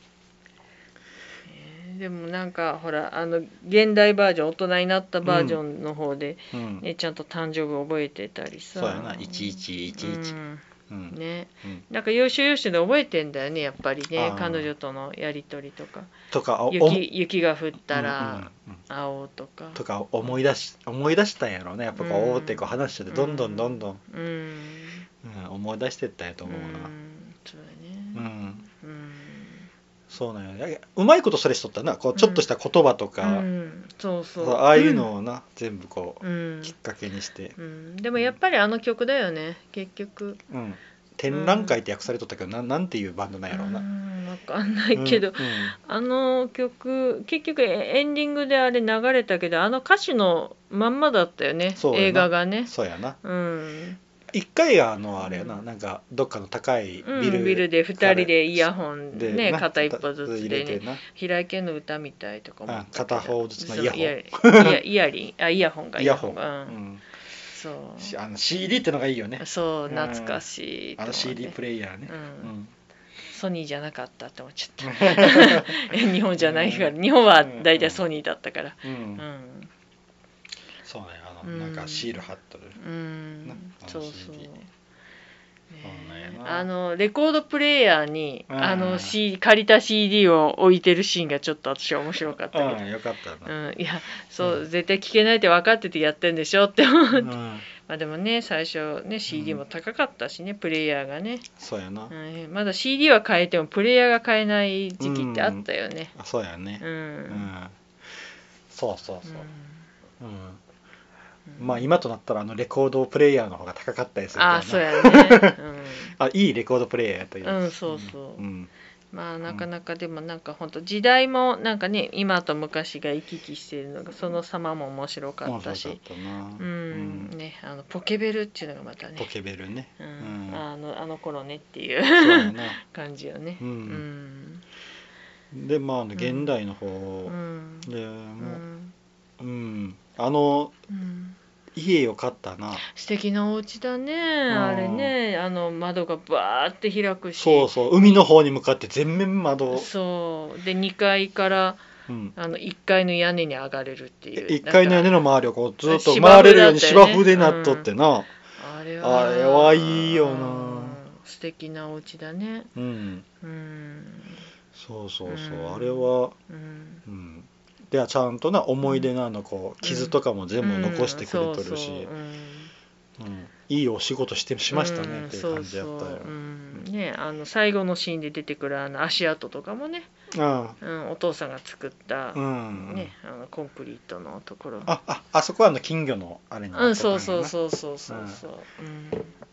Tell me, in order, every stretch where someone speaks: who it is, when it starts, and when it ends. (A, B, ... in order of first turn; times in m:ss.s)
0:01.5-0:16.1 A
0:05.2-0:05.6 B
0:06.5-0:06.8 B
0:08.8-0:10.3 B
0:10.9-0:11.8 B
0:14.2-0:14.7 B
0:16.3-0:17.0 B
0:16.7-0:20.3 A
0:17.9-0:18.8 B
0:19.7-0:24.0 B
0:22.0-0:25.1 A
0:25.2-0:26.9 B
0:26.4-0:29.7 A
0:28.1-0:28.6 B
0:30.1-0:33.4 B
0:32.1-0:32.4 A
0:33.2-0:35.1 A
0:34.4-0:37.6 B
0:36.2-0:36.7 A
0:37.6-0:40.4 A
0:40.5-0:43.8 B
0:41.3-0:41.8 A
0:43.5-0:52.7 A
0:44.9-0:45.7 B
0:51.8-0:53.2 B
0:53.2-0:54.0 A
0:54.3-1:01.0 B
0:55.2-0:55.6 A
0:57.0-1:06.8 A
1:02.7-1:04.8 B
1:06.0-1:07.0 B
1:07.5-1:08.1 A
1:08.0-1:10.4 B
1:09.4-1:12.5 A
1:11.0-1:12.7 B
1:13.3-1:19.7 A
1:14.8-1:16.9 B
1:17.4-1:18.0 B
1:18.8-1:19.2 B
1:20.8-1:22.8 B
1:21.4-1:22.2 A
1:22.8-1:24.7 A
1:23.4-1:24.5 B
1:25.7-1:32.8 A
1:25.8-1:26.7 B
1:28.5-1:29.1 B
1:32.5-1:33.5 B
1:33.4-1:41.5 A
1:37.1-1:37.6 B
1:39.3-1:39.6 B
1:41.6-1:42.1 B
1:42.1-1:46.1 A
1:45.0-1:47.7 B
1:46.8-1:47.5 A
1:48.7-1:49.4 B
1:49.2-1:49.9 A
1:50.2-1:50.6 B
1:51.5-1:51.8 A
1:51.6-1:55.6 B
1:54.3-1:56.1 A
1:56.2-1:58.7 B
1:57.4-1:58.4 A
1:59.1-2:06.0 A
2:05.4-2:07.3 B
2:06.6-2:09.3 A
2:09.2-2:10.6 B
2:10.0-2:14.6 A
2:12.1-2:12.8 B
2:13.6-2:14.0 B
2:15.5-2:18.6 B
2:16.1-2:16.5 A
2:17.2-2:18.9 A
2:19.4-2:20.7 B
2:20.9-2:21.4 A
2:21.7-2:22.8 B
2:22.8-2:28.2 A
2:24.5-2:25.1 B
2:27.4-2:29.9 B
2:29.7-2:31.8 A
2:32.1-2:32.3 B
2:32.4-2:35.2 A
2:34.4-2:38.3 B
2:35.8-2:37.9 A
2:38.6-2:42.7 A
2:39.0-2:41.0 B
2:42.8-2:43.2 B
2:43.4-2:44.4 A
2:44.7-2:46.3 B
2:45.2-2:47.0 A
2:47.0-2:52.1 B
2:48.8-2:49.1 A
2:49.8-2:52.7 A
2:53.2-2:56.8 B
2:54.7-3:00.1 A
3:00.3-3:00.8 B
3:00.8-3:04.9 A
3:02.3-3:03.1 B
3:04.8-3:07.5 B
3:06.7-3:09.3 A
3:08.1-3:08.4 B